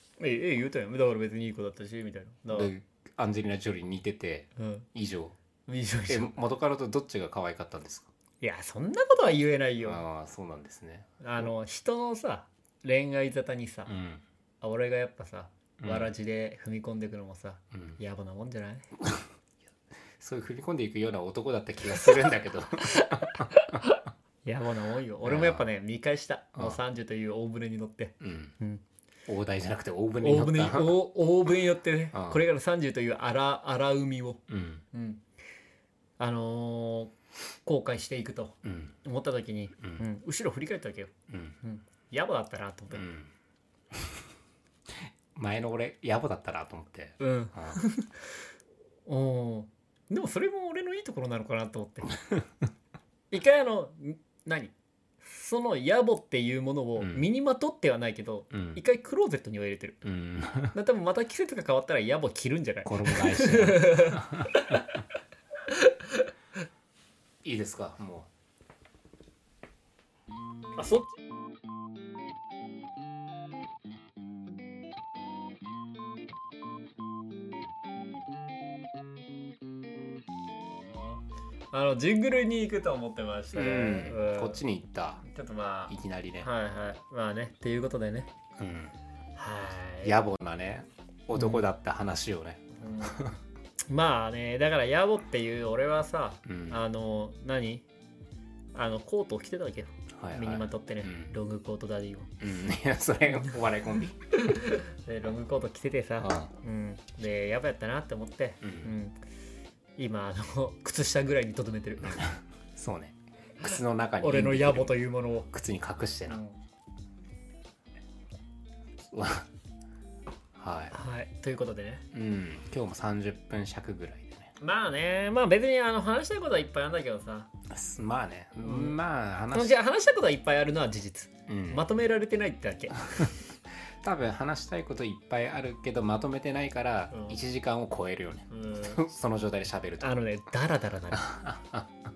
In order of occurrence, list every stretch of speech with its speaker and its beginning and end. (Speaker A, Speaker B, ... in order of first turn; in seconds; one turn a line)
Speaker A: 0.2-2.7
Speaker B: 2.5-5.4
Speaker A: 4.6-4.9
Speaker A: 5.7-6.4
Speaker B: 6.1-8.1
Speaker A: 8.4-10.0
Speaker B: 9.8-11.5
Speaker A: 11.2-13.9
Speaker B: 13.9-14.2
Speaker A: 14.6-18.9
Speaker B: 15.8-16.1
Speaker B: 17.7-18.0
Speaker B: 20.2-23.8
Speaker A: 22.9-28.8
Speaker B: 25.2-25.7
Speaker B: 28.2-28.6
Speaker B: 29.3-31.0
Speaker A: 30.2-35.2
Speaker B: 32.1-32.4
Speaker B: 34.5-34.8
Speaker A: 36.2-37.1
Speaker A: 37.6-43.1
Speaker B: 38.6-39.0
Speaker B: 41.3-41.6
Speaker B: 42.9-43.3
Speaker B: 43.9-44.2
Speaker B: 44.9-47.8
Speaker A: 47.2-48.2
Speaker A: 49.1-52.2
Speaker A: 53.3-60.0
Speaker B: 57.0-57.3
Speaker B: 58.5-58.8
Speaker B: 60.0-60.8
Speaker A: 60.7-64.8
Speaker B: 62.9-64.8
Speaker A: 65.7-66.3
Speaker B: 67.4-68.3
Speaker A: 70.8-71.2
Speaker A: 80.8-81.2
Speaker A: 81.7-84.6
Speaker B: 83.5-85.2
Speaker A: 85.3-88.3
Speaker B: 85.9-86.5
Speaker B: 88.6-88.9
Speaker A: 89.4-90.2
Speaker B: 90.0-93.4
Speaker A: 91.3-91.6
Speaker A: 92.8-93.2
Speaker A: 93.9-97.9
Speaker B: 96.5-96.8
Speaker A: 98.7-102.3
Speaker B: 100.1-101.3
Speaker B: 102.4-104.2
Speaker A: 104.3-109.1
Speaker B: 106.2-106.5
Speaker B: 108.6-108.9
Speaker A: 110.0-112.3
Speaker B: 112.0-116.4
Speaker A: 114.2-115.5
Speaker A: 116.3-116.6
Speaker B: 119.1-119.5
Speaker B: 120.6-121.0
Speaker A: 120.9-122.0
Speaker B: 122.1-124.5
Speaker A: 124.6-127.5
Speaker B: 127.7-129.8
Speaker A: 128.6-129.0
Speaker A: 129.5-133.3
Speaker B: 131.5-131.8
Speaker B: 134.0-140.2
Speaker A: 137.1-137.4
Speaker A: 138.5-139.0
Speaker A: 140.0-141.3
Speaker B: 141.1-141.9